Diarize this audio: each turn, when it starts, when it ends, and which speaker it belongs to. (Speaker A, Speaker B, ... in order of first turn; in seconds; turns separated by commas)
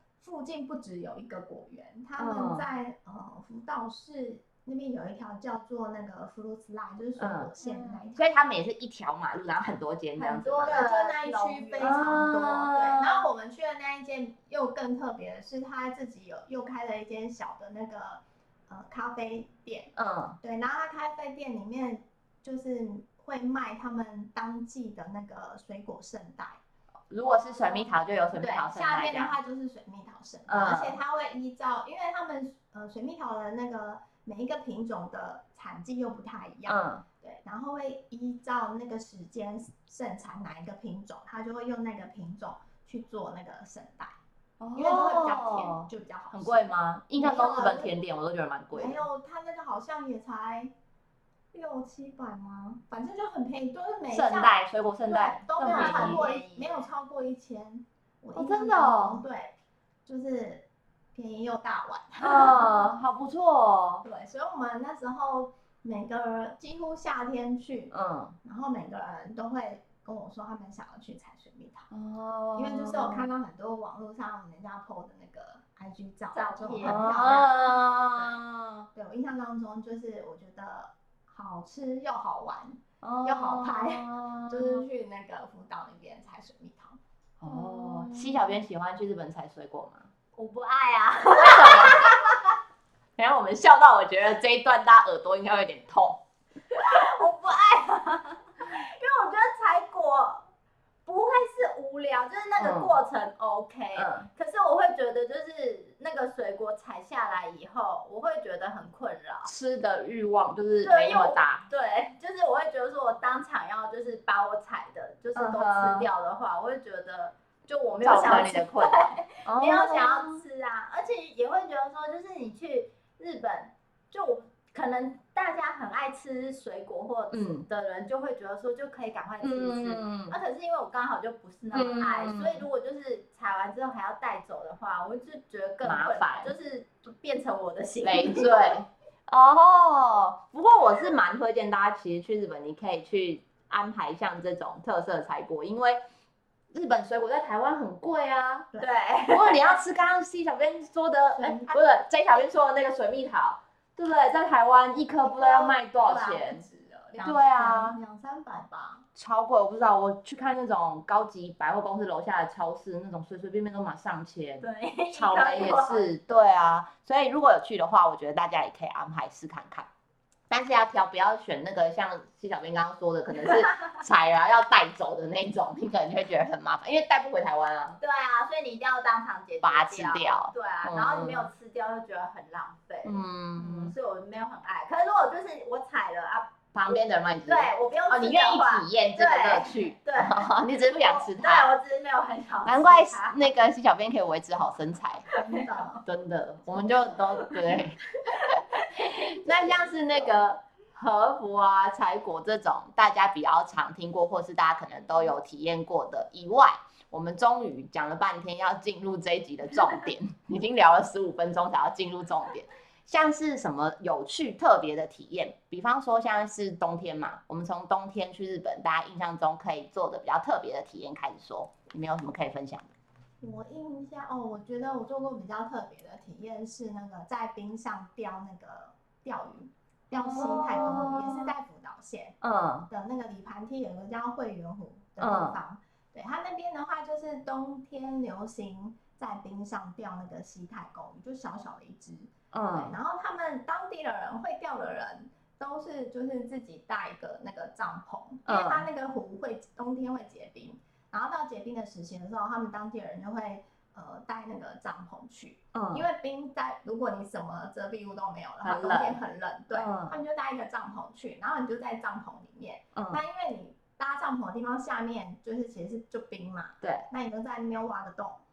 Speaker A: 0.2-8.2, Speaker B: 2.2-2.7, Speaker B: 7.2-10.8, Speaker C: 10.2-12.2, Speaker A: 10.6-26.6, Speaker B: 11.8-13.2, Speaker B: 19.9-20.4, Speaker B: 27.1-29.3, Speaker A: 28.3-44.2, Speaker B: 30.5-31.0, Speaker B: 36.7-37.0, Speaker B: 44.6-49.0, Speaker A: 44.7-48.0, Speaker A: 48.7-50.7, Speaker A: 51.5-59.5, Speaker B: 54.1-56.2, Speaker C: 55.6-56.9, Speaker B: 58.4-59.2, Speaker A: 60.0-62.9, Speaker B: 62.2-64.0, Speaker A: 64.0-67.9, Speaker B: 67.9-68.3, Speaker A: 68.4-71.9, Speaker B: 71.9-73.3, Speaker A: 72.5-77.5, Speaker C: 76.3-77.0, Speaker B: 76.8-78.9, Speaker A: 78.1-78.4, Speaker A: 78.9-87.0, Speaker B: 83.0-84.8, Speaker B: 87.4-90.1, Speaker A: 87.6-88.2, Speaker C: 90.3-92.5, Speaker B: 91.3-92.2, Speaker B: 93.2-96.2, Speaker C: 96.7-100.5, Speaker C: 101.0-109.5, Speaker B: 102.6-103.0, Speaker B: 103.9-104.3, Speaker B: 109.4-111.7, Speaker C: 110.8-138.8, Speaker B: 115.3-116.1, Speaker B: 118.0-120.4, Speaker B: 127.3-127.7, Speaker B: 129.4-130.4, Speaker B: 131.7-132.7, Speaker B: 135.8-136.5, Speaker B: 138.0-146.0, Speaker B: 146.7-148.7, Speaker C: 148.8-149.7, Speaker B: 149.3-156.6, Speaker A: 151.3-151.8, Speaker A: 155.2-159.1, Speaker B: 157.2-158.0, Speaker B: 159.2-169.9, Speaker C: 164.6-166.1, Speaker B: 170.5-178.0, Speaker C: 173.4-173.8, Speaker C: 178.0-193.5, Speaker B: 179.6-181.5, Speaker B: 183.0-183.9, Speaker B: 186.7-191.7, Speaker B: 192.7-195.2, Speaker C: 195.3-195.7, Speaker A: 195.3-196.0, Speaker B: 196.0-222.9, Speaker C: 197.3-199.5, Speaker A: 223.4-232.4, Speaker B: 230.1-231.5, Speaker B: 232.4-232.9, Speaker A: 232.9-268.4, Speaker B: 235.2-235.6, Speaker B: 242.5-242.9, Speaker B: 248.4-248.8, Speaker B: 255.7-256.1, Speaker B: 258.6-259.2, Speaker B: 259.7-260.1, Speaker B: 262.9-263.2, Speaker B: 266.8-267.1